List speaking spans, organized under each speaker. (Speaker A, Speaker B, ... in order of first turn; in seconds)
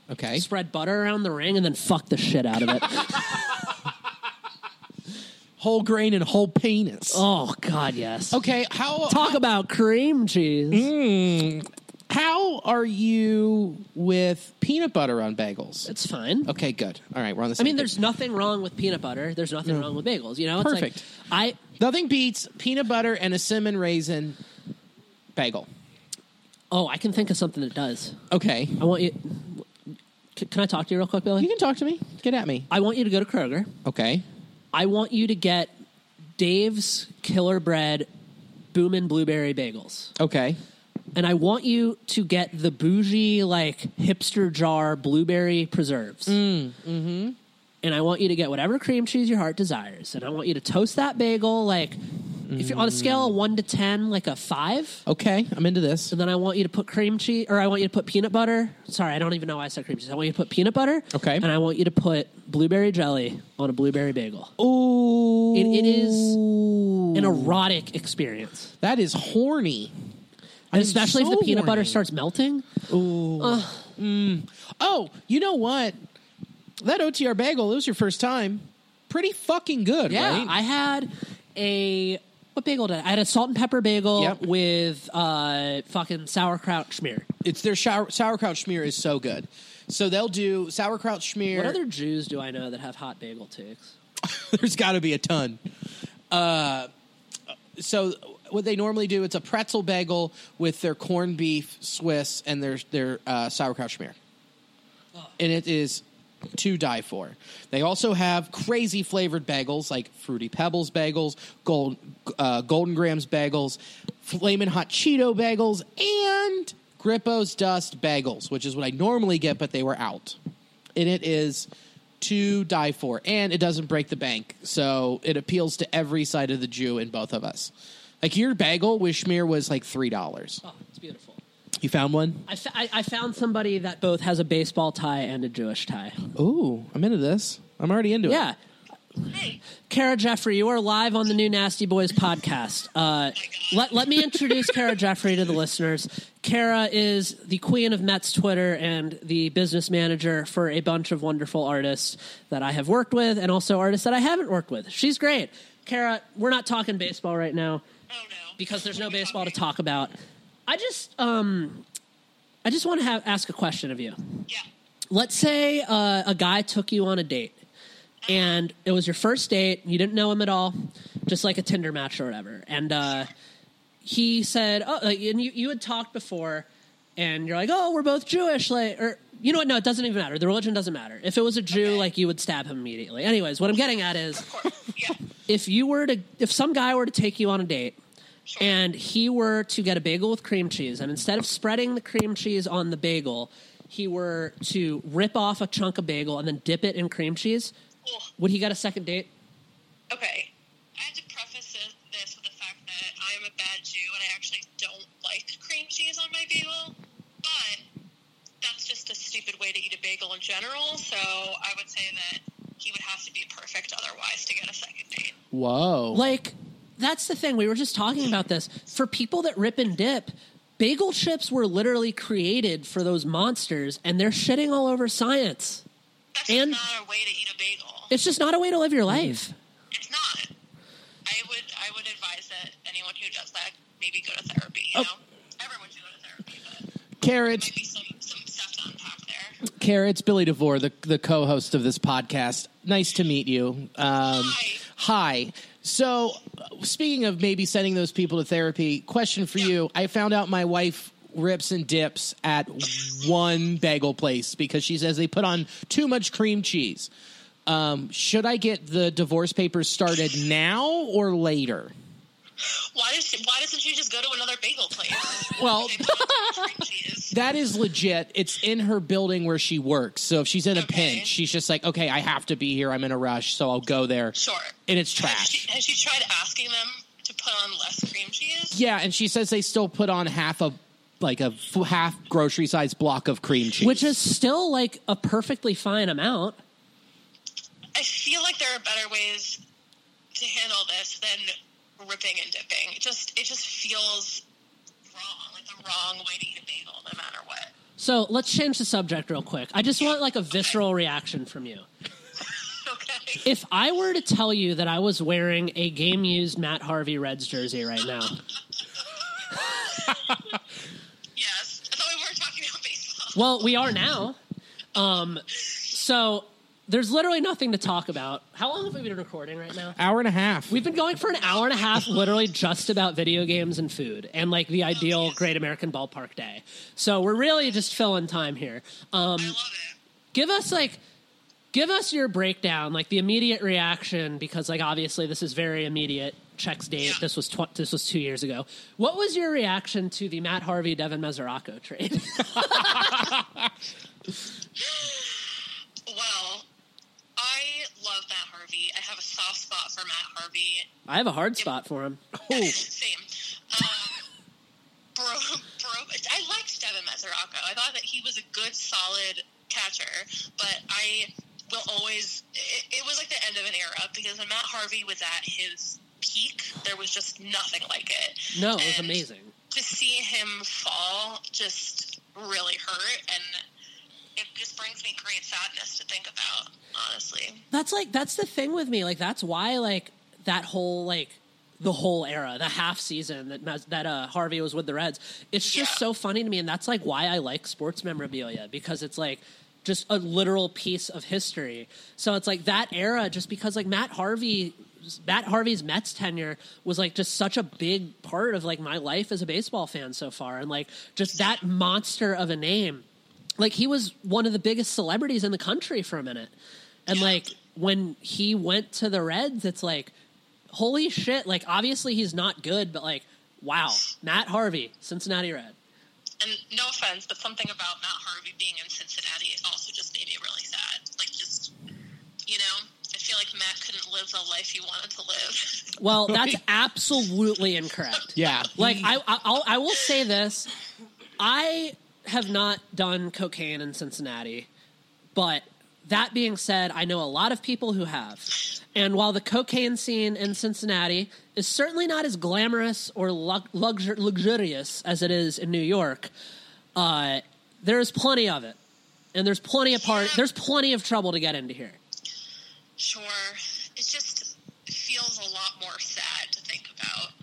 Speaker A: 0.1-0.5, 5.6-7.2, 8.3-9.4, 10.7-15.9, 16.5-18.0, 19.6-19.9, 20.6-21.0, 21.8-24.4, 25.4-25.7, 28.3-28.8, 31.4-32.7, 33.8-34.2, 40.2-40.6, 46.3-47.4, 52.5-53.4, 55.1-56.1, 61.1-61.5, 64.6-67.6, 68.8-69.9, 70.7-72.0, 72.9-76.0, 76.8-80.6, 84.2-84.4, 87.4-91.8, 94.2-95.6, 96.3-96.9, 97.8-104.2, 105.4-120.4, 121.0-121.7, 122.2-130.6, 131.8-132.4, 136.4-138.4, 215.5-216.2, 237.2-237.7, 239.7-257.1, 257.7-261.9, 265.6-266.8, 267.3-275.7, 278.7-284.1, 319.9-320.8, 352.4-352.8, 426.3-426.6, 428.4-429.2
Speaker B: 0.3-3.4, 7.1-8.4, 9.1-10.9, 15.9-16.5, 17.6-21.6, 26.7-28.2, 28.8-29.7, 30.4-31.5, 32.7-33.7, 34.7-35.7, 36.4-38.1, 38.7-40.1, 41.1-46.4, 47.8-52.0, 52.5-55.0, 56.1-64.5, 65.5-66.4, 67.1-68.7, 70.7-72.8, 73.4-73.9, 80.1-87.3, 91.5-94.0, 130.6-131.4, 132.5-136.2, 138.3-138.6, 139.9-157.8, 158.6-160.2, 160.7-161.8, 162.7-164.2, 165.1-167.6, 168.3-173.3, 174.0-184.5, 185.5-188.0, 188.6-197.7, 198.4-199.3, 216.1-225.8, 226.5-226.8, 228.1-229.6, 283.8-286.6, 298.0-301.9, 303.4-308.4, 313.4-314.4, 314.9-320.0, 320.7-329.6, 330.3-331.0, 331.7-343.3, 351.1-352.2, 368.5-369.5, 377.7-403.1, 403.6-406.5, 407.1-410.1, 410.7-415.8, 426.0-430.7, 431.4-434.7, 435.4-446.3, 447.0-448.8, 449.3-452.0
Speaker C: 139.3-139.6, 143.4-144.7, 158.1-159.6, 168.2-168.7, 173.1-173.3, 181.7-182.1, 184.3-185.2, 188.5-188.8, 198.0-198.3, 200.1-207.8, 208.6-215.3, 226.3-228.1, 229.9-230.5, 231.3-236.9, 237.5-239.6, 244.2-244.8, 262.6-267.4, 270.7-271.3, 274.4-278.8, 287.9-289.6, 290.4-294.4, 295.1-297.7, 300.0-300.8, 302.4-303.5, 309.4-310.4, 311.4-313.7, 321.4-322.4, 324.9-325.5, 329.4-330.0, 344.8-346.7, 347.4-350.9, 352.5-354.3, 355.1-373.6, 374.4-377.6, 385.6-386.0, 401.3-401.6, 407.1-407.5, 416.4-421.7, 422.5-425.9, 450.0-450.4, 453.0-457.3